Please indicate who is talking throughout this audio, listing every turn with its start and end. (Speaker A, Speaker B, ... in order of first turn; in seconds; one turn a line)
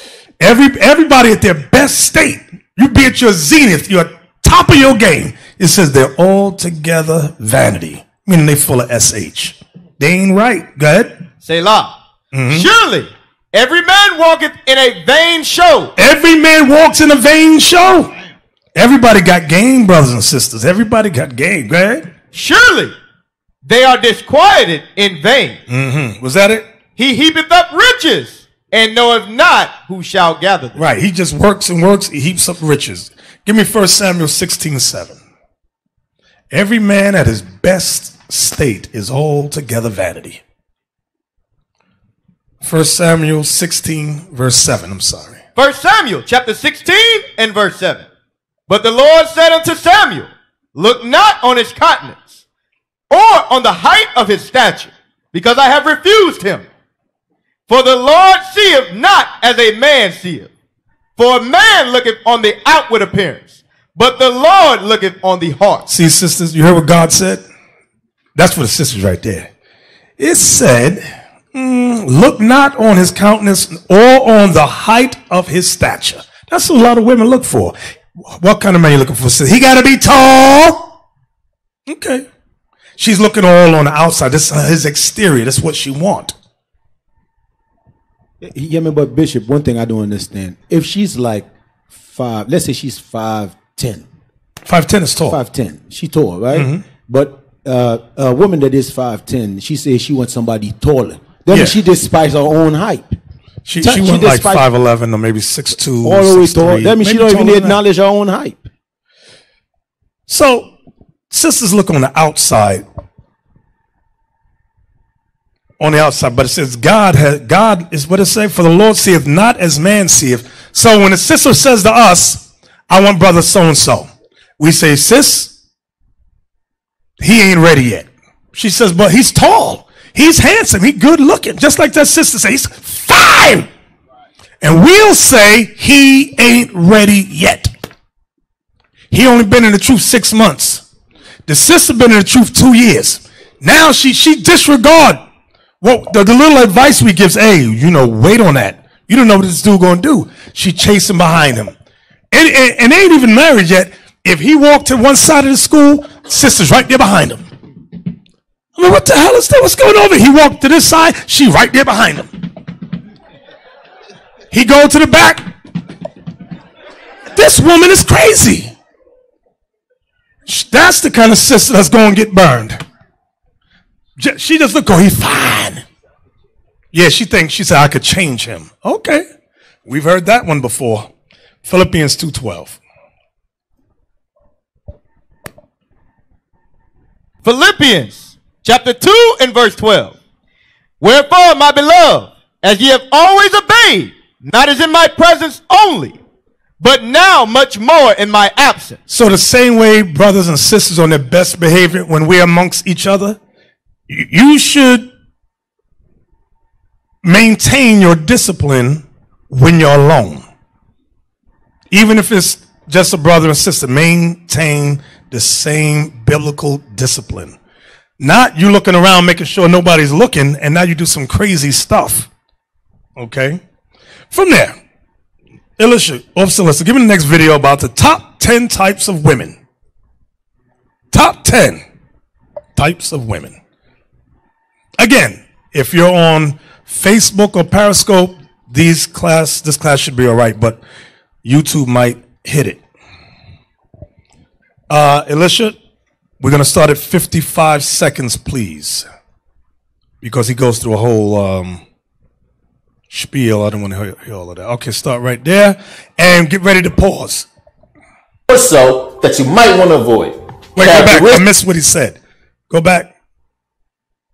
Speaker A: 0.4-11.2
Speaker B: 11.4-15.9
Speaker A: 12.3-12.7
Speaker A: 16.0-18.1
Speaker A: 18.8-22.1
Speaker B: 22.3-22.9
Speaker B: 23.6-25.6
Speaker A: 25.7-26.7
Speaker B: 27.0-30.8
Speaker A: 30.8-35.2
Speaker A: 36.5-40.4
Speaker A: 42.6-45.4
Speaker B: 45.6-48.1
Speaker B: 48.7-52.4
Speaker B: 53.1-56.7
Speaker B: 57.7-60.5
Speaker B: 61.2-65.9
Speaker A: 65.9-67.5
Speaker A: 68.3-69.5
Speaker A: 70.2-80.9
Speaker A: 81.9-82.3
Speaker A: 83.0-86.3
Speaker C: 88.4-94.1
Speaker A: 94.7-95.4
Speaker C: 95.2-103.2
Speaker A: 96.5-96.8
Speaker A: 101.5-101.8
Speaker A: 103.7-107.8
Speaker C: 103.8-104.7
Speaker C: 106.0-108.7
Speaker A: 110.3-110.7
Speaker A: 111.3-112.9
Speaker A: 115.8-125.6
Speaker A: 127.2-133.7
Speaker A: 134.6-137.7
Speaker A: 139.1-140.9
Speaker A: 141.5-145.2
Speaker A: 145.8-151.7
Speaker A: 152.3-157.5
Speaker A: 158.8-162.3
Speaker A: 164.5-165.5
Speaker A: 167.3-168.7
Speaker A: 170.5-172.8
Speaker A: 174.2-175.8
Speaker A: 176.9-179.3
Speaker A: 179.8-181.1
Speaker A: 181.6-182.8
Speaker B: 187.4-190.2
Speaker B: 191.0-196.2
Speaker B: 196.8-199.0
Speaker A: 199.1-203.4
Speaker A: 204.1-205.1
Speaker A: 207.2-210.4
Speaker A: 211.9-217.6
Speaker A: 218.2-222.3
Speaker A: 223.2-223.6
Speaker A: 224.3-224.8
Speaker A: 225.8-229.6
Speaker A: 231.1-231.8
Speaker A: 232.8-233.6
Speaker A: 235.0-240.8
Speaker A: 241.4-242.8
Speaker A: 244.9-245.8
Speaker A: 246.4-249.1
Speaker A: 250.2-251.8
Speaker A: 253.1-257.5
Speaker D: 258.5-261.4
Speaker A: 260.8-262.2
Speaker A: 262.7-263.1